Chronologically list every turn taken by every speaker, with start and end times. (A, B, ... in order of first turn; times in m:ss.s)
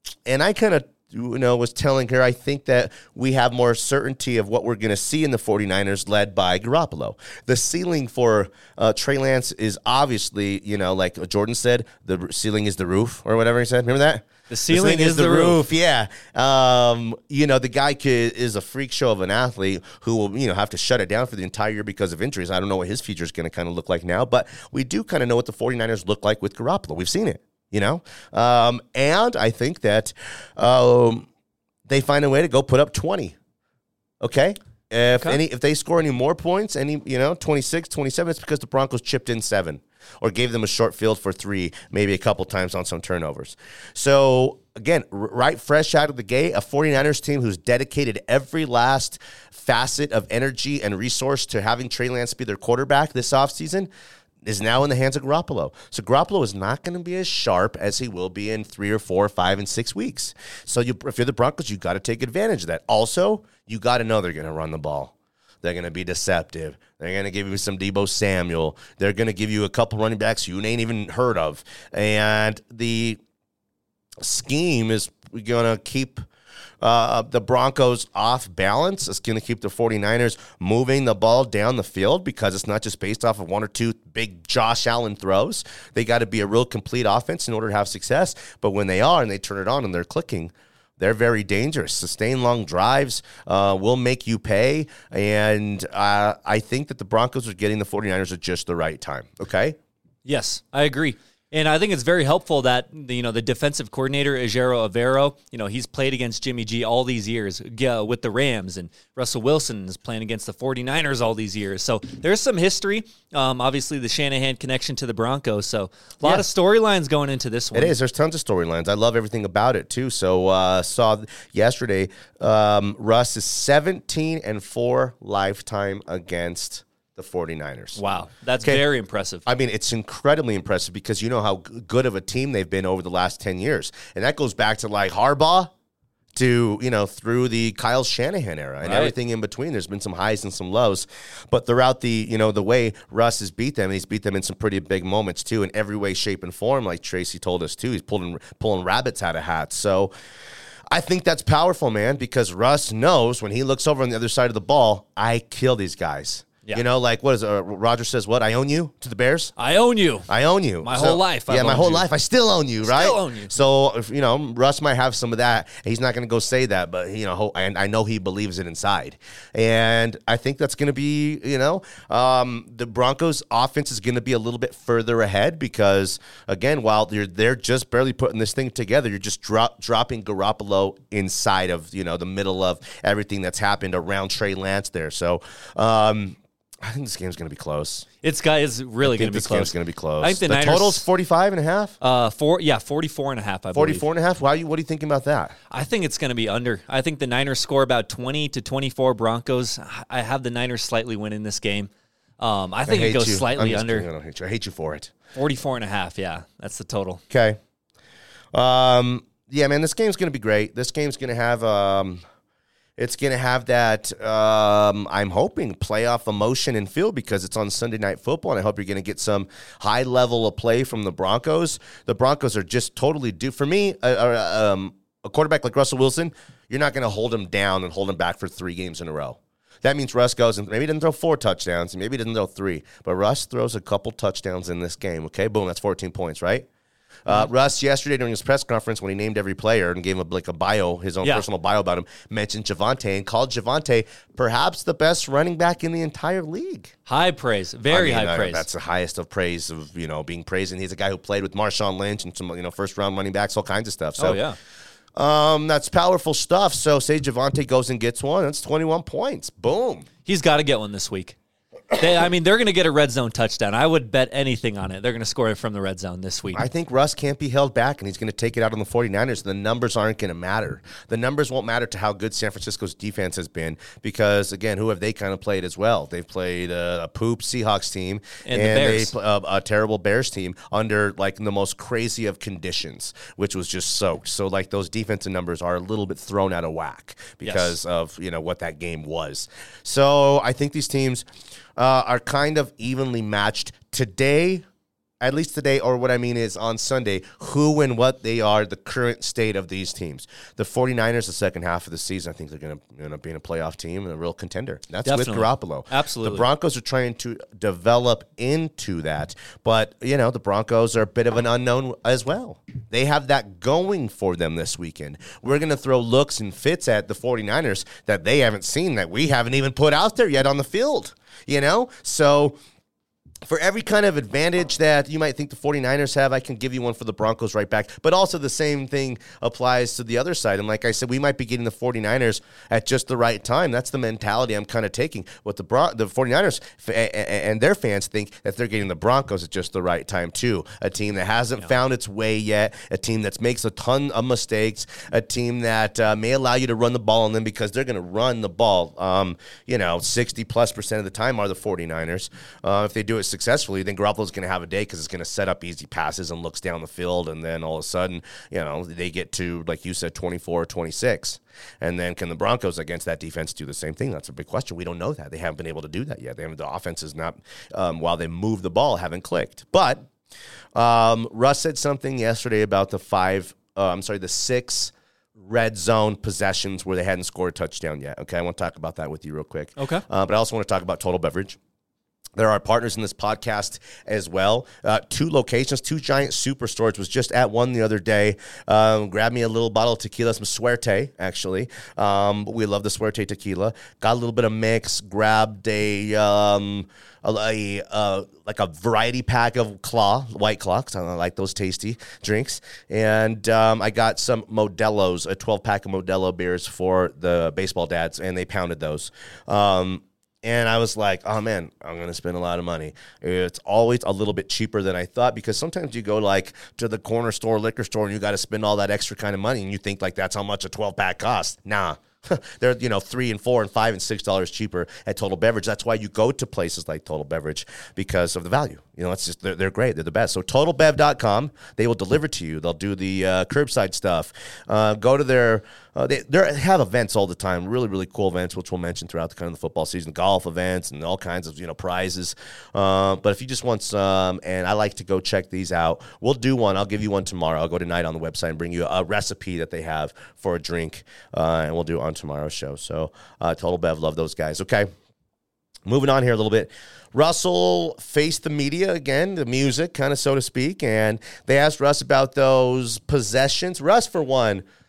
0:00.3-0:31.3 A
0:14.5-0:15.6 B
0:31.9-0:33.4 A
0:34.2-0:53.9 A
0:54.4-1:13.2 A
1:14.2-1:16.2 A
1:16.8-1:39.8 A
1:40.2-1:58.0 B
1:57.7-2:08.0 A
2:08.0-2:09.4 B
2:09.5-2:15.7 A
2:16.3-2:30.1 A
2:18.8-2:19.1 B
2:30.9-2:39.5 A
2:39.6-2:40.3 B
2:40.3-3:08.1 A
2:40.8-2:42.1 B
2:42.8-2:43.6 B
3:08.2-3:11.1 B
3:09.0-3:12.0 A
3:12.0-3:14.0 B
3:13.7-3:15.6 A
3:15.7-3:24.1 B
3:22.9-3:25.1 A
3:25.4-3:27.2 B
3:27.3-3:27.6 A
3:28.5-3:32.2 A
3:33.0-3:56.7 A
3:57.3-4:06.9 A
4:07.1-4:08.7 B
4:07.9-4:14.4 A
4:14.2-4:14.6 B
4:15.2-4:20.1 A
4:20.2-4:21.4 B
4:21.9-4:26.6 B
4:26.5-4:51.3 A
4:38.4-4:39.1 B
4:47.4-4:47.7 B
4:51.8-4:54.6 A
4:55.2-5:22.6 A
5:05.0-5:06.5 B
5:23.5-6:10.1 A
6:10.7-6:21.6 A
6:19.8-6:20.0 B
6:22.4-7:34.9 A
7:35.8-7:44.6 A